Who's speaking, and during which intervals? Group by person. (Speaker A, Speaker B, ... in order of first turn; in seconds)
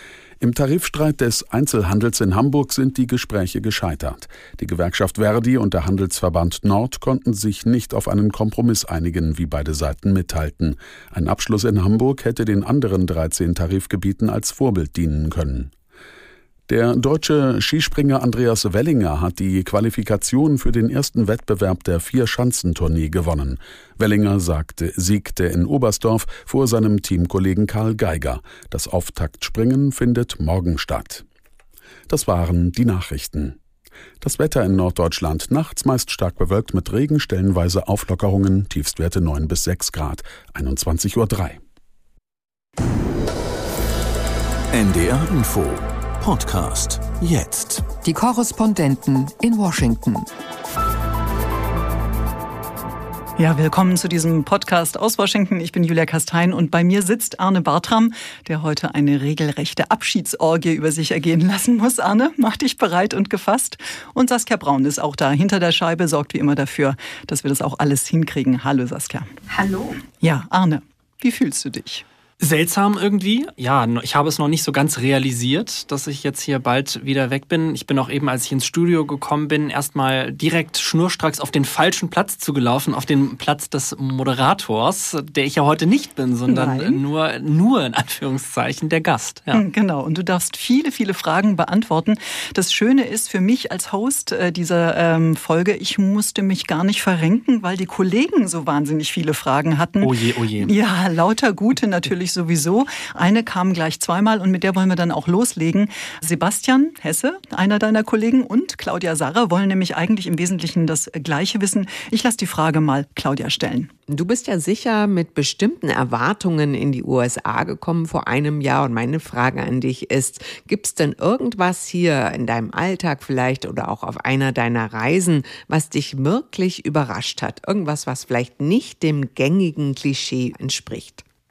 Speaker A: 0.4-15.7, 16.7-31.2, 32.1-33.6, 34.2-41.6
Speaker B: 44.7-48.0
Speaker C: 48.0-50.3
Speaker D: 53.4-69.3, 70.2-72.0, 86.5-87.0, 89.5-113.9
Speaker E: 72.4-89.6, 100.0-100.7
Speaker F: 114.1-131.2